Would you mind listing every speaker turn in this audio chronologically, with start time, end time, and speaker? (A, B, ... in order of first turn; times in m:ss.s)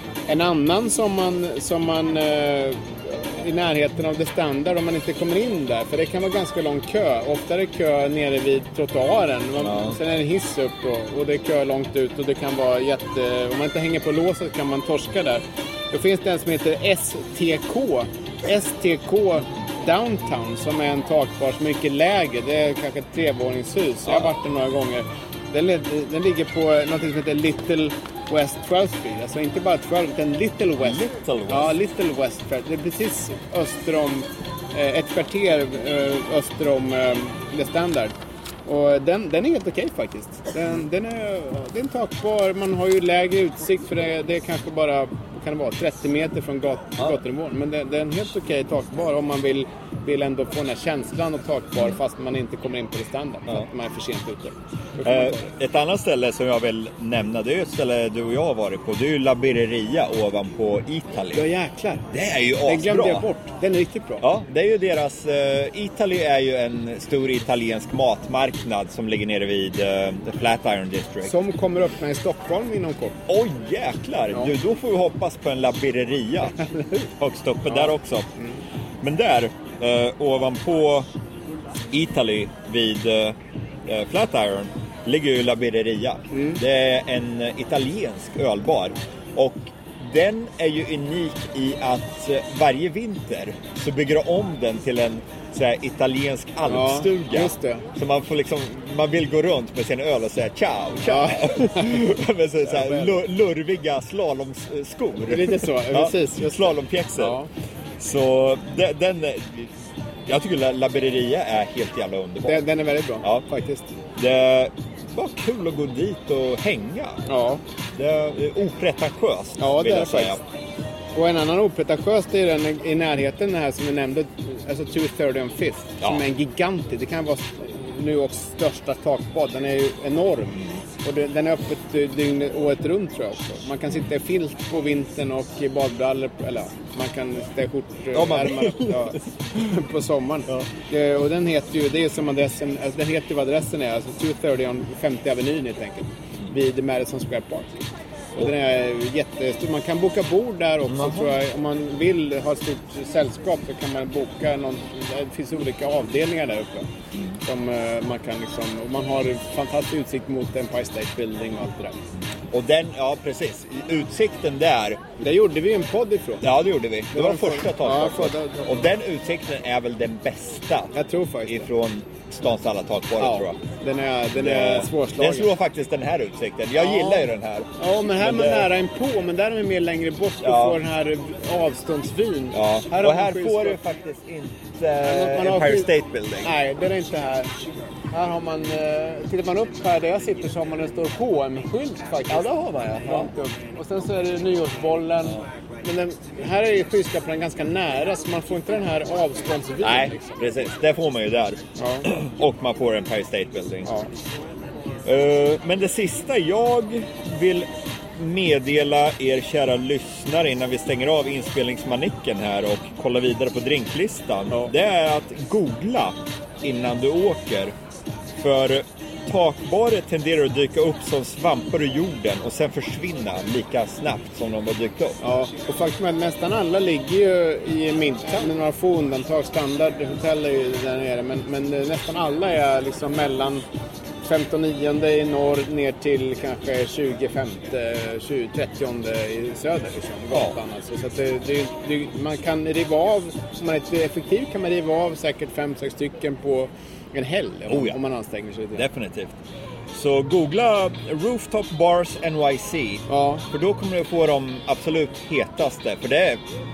0:00.3-0:38.1 A
0:09.6-0:10.0 B
0:24.0-0:24.3 B
0:30.8-0:31.7 B
0:38.6-0:55.5 A
0:55.0-1:01.4 B
1:01.3-1:04.2 A
1:02.1-1:03.2 B
1:04.2-1:11.3 B
1:11.2-1:13.2 A
1:13.3-1:18.3 B
1:16.6-1:17.0 A
1:17.7-1:18.6 A
1:19.0-1:21.1 B
1:21.9-1:47.4 B
1:26.3-1:26.6 A
1:36.6-1:37.8 A
1:41.0-1:42.0 A
1:42.6-1:43.2 A
1:45.3-1:47.5 A
1:48.0-1:52.6 B
1:52.4-1:53.9 A
1:54.2-1:57.2 B
1:57.2-1:57.6 A
1:57.9-2:00.4 B
1:59.6-2:00.4 A
2:01.1-2:27.8 A
2:18.1-2:19.2 B
2:28.3-2:36.9 A
2:30.9-2:31.3 B
2:37.4-2:42.0 A
2:42.5-2:45.0 B
2:45.2-2:46.5 A
2:46.4-2:50.9 B
2:47.1-2:48.8 A
2:50.9-2:51.7 A
2:51.4-2:53.6 B
2:53.2-2:55.5 A
2:54.3-2:58.7 B
2:56.8-3:03.8 A
3:00.4-3:00.8 B
3:02.5-3:06.5 B
3:05.0-3:07.5 A
3:08.1-3:12.5 A
3:12.3-3:13.3 B
3:13.0-3:20.5 A
3:19.8-3:23.9 B
3:21.8-3:22.1 A
3:23.8-3:24.1 A
3:25.0-3:37.7 B
3:38.4-3:45.2 B
3:45.2-3:53.6 A
3:54.2-4:08.8 A
4:07.7-4:08.0 B
4:08.8-4:09.4 B
4:09.9-4:16.4 B
4:13.1-4:13.4 A